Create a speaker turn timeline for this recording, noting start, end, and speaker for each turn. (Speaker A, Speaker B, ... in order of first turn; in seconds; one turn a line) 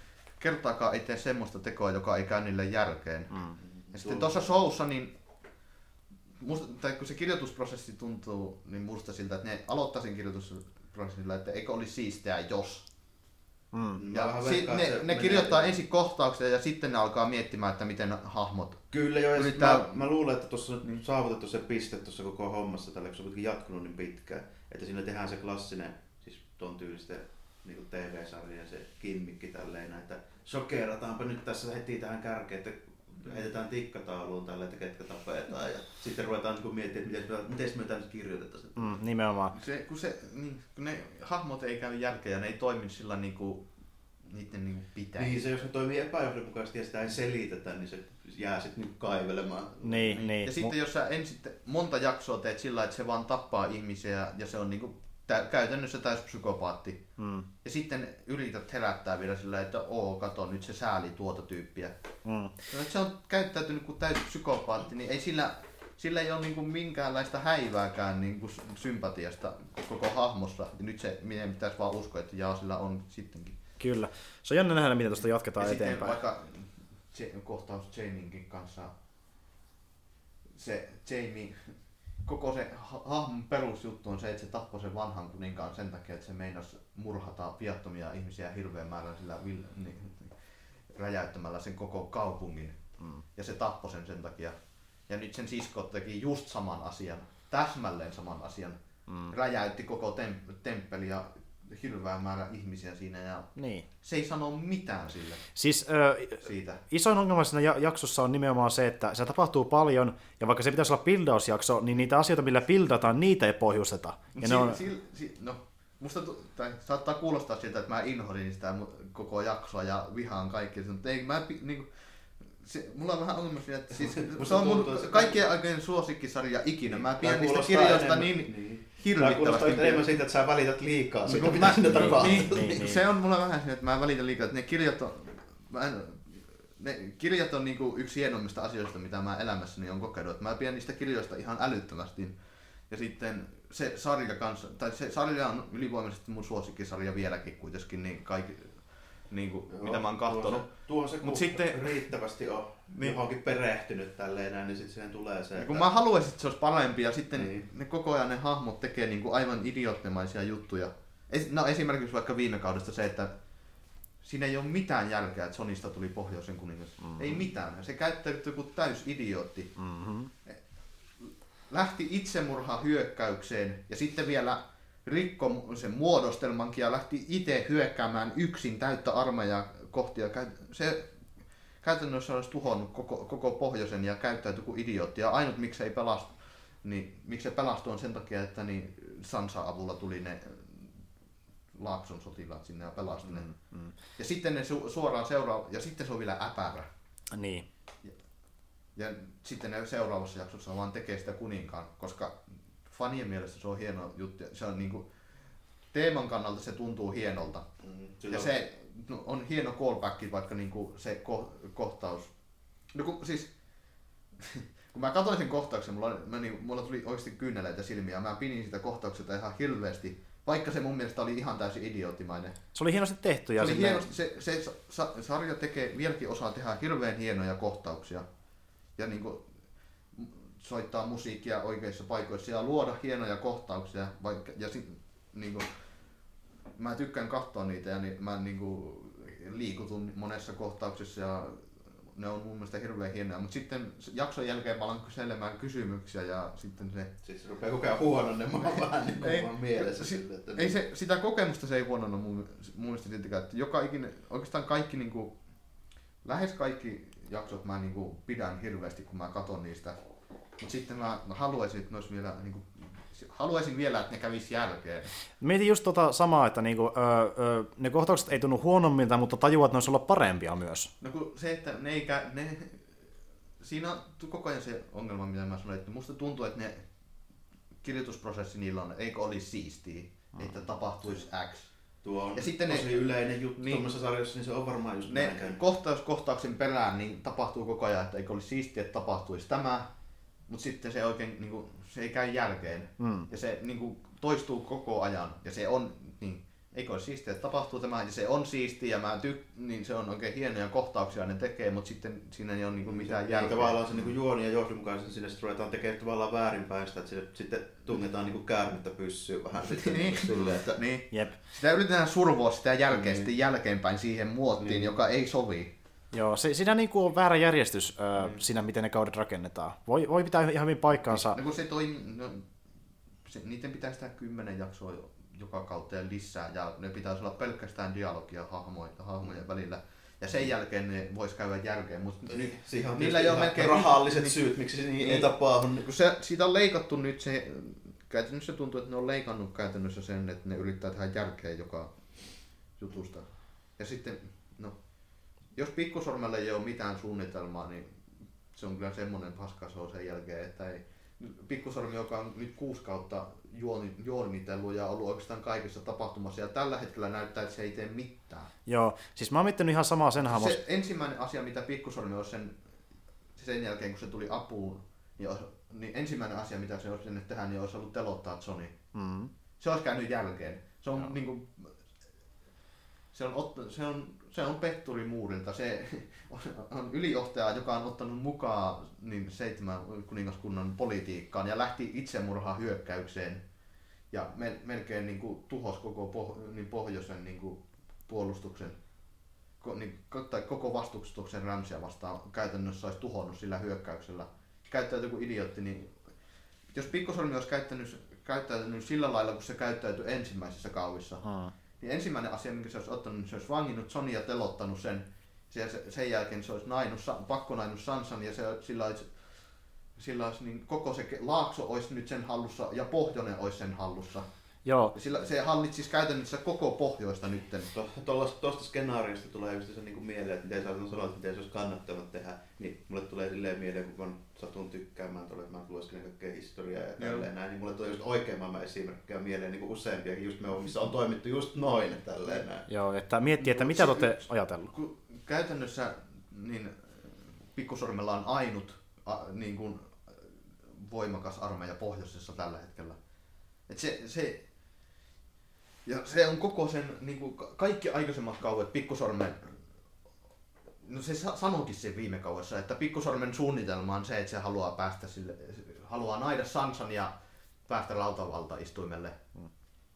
Speaker A: 0.3-3.4
Speaker B: 3.6-4.5
Speaker A: 3.9-5.1
Speaker A: 6.4-12.8
Speaker C: 13.7-14.0
Speaker B: 14.0-15.8
Speaker A: 14.1-18.8
Speaker B: 18.9-38.9
Speaker A: 19.3-20.0
Speaker C: 38.8-39.5
Speaker A: 39.5-43.7
Speaker A: 44.2-45.4
Speaker B: 45.2-50.2
Speaker C: 49.8-50.7
Speaker A: 50.1-57.0
Speaker C: 57.2-57.5
Speaker A: 57.6-61.9
Speaker C: 62.2-62.6
Speaker A: 62.7-73.6
Speaker C: 73.8-76.2
Speaker A: 75.6-78.9
Speaker A: 80.5-90.4
Speaker A: 90.9-92.8
Speaker A: 93.3-94.5
Speaker A: 95.1-98.8
Speaker C: 99.1-99.3
Speaker A: 99.3-105.4
Speaker C: 103.5-103.8
Speaker C: 105.5-114.8
Speaker A: 106.4-106.8
Speaker A: 114.4-130.0
Speaker B: 124.0-125.4
Speaker B: 126.8-132.8
Speaker A: 131.2-142.4
Speaker C: 131.8-133.0
Speaker A: 142.9-150.7
Speaker B: 149.7-155.9
Speaker A: 151.2-152.1
Speaker A: 152.9-153.2
Speaker A: 155.6-163.3
Speaker B: 157.3-157.7
Speaker A: 164.2-169.7
Speaker C: 167.0-167.4
Speaker C: 169.8-170.3
Speaker A: 171.2-181.1
Speaker A: 181.8-191.0
Speaker A: 191.7-193.5
Speaker C: 193.2-193.9
Speaker A: 194.1-196.9
Speaker C: 197.3-197.7
Speaker A: 198.9-205.1
Speaker A: 205.9-207.7
Speaker B: 207.8-208.5
Speaker A: 208.3-212.3
Speaker A: 212.9-213.5
Speaker A: 214.4-222.6
Speaker C: 222.7-224.1
Speaker A: 223.6-228.2
Speaker A: 228.9-229.5
Speaker A: 230.1-235.7
Speaker A: 236.7-247.1
Speaker B: 247.2-250.8
Speaker A: 248.6-255.3
Speaker A: 256.2-260.0
Speaker A: 260.6-265.1
Speaker C: 265.4-270.9
Speaker A: 271.0-273.0
Speaker A: 273.6-276.9
Speaker A: 277.8-281.7
Speaker B: 282.0-285.6
Speaker A: 282.3-283.9
Speaker A: 285.1-289.9
Speaker A: 290.5-303.8
Speaker C: 293.0-293.3
Speaker B: 302.9-310.8
Speaker A: 309.6-315.7
Speaker C: 311.1-311.4
Speaker B: 312.9-313.3
Speaker B: 314.6-314.9
Speaker C: 316.1-321.4
Speaker A: 320.9-322.5
Speaker A: 323.2-334.4
Speaker B: 332.3-335.9
Speaker A: 335.0-344.8
Speaker A: 345.5-347.9
Speaker A: 348.5-358.5
Speaker C: 358.6-360.6
Speaker A: 360.2-362.6
Speaker A: 363.3-368.7
Speaker C: 368.9-369.3
Speaker A: 369.6-371.8
Speaker A: 373.1-383.4
Speaker A: 384.1-388.8
Speaker A: 389.6-396.0
Speaker A: 396.7-401.2
Speaker C: 401.2-401.5
Speaker A: 401.8-409.2
Speaker A: 409.9-414.3
Speaker C: 414.6-414.9
Speaker A: 414.9-417.7
Speaker B: 417.7-432.6
Speaker A: 427.0-427.3
Speaker C: 432.7-434.7
Speaker A: 433.4-443.0
Speaker A: 443.7-444.4
Speaker A: 445.8-449.6
Speaker A: 450.8-457.1
Speaker A: 457.7-459.2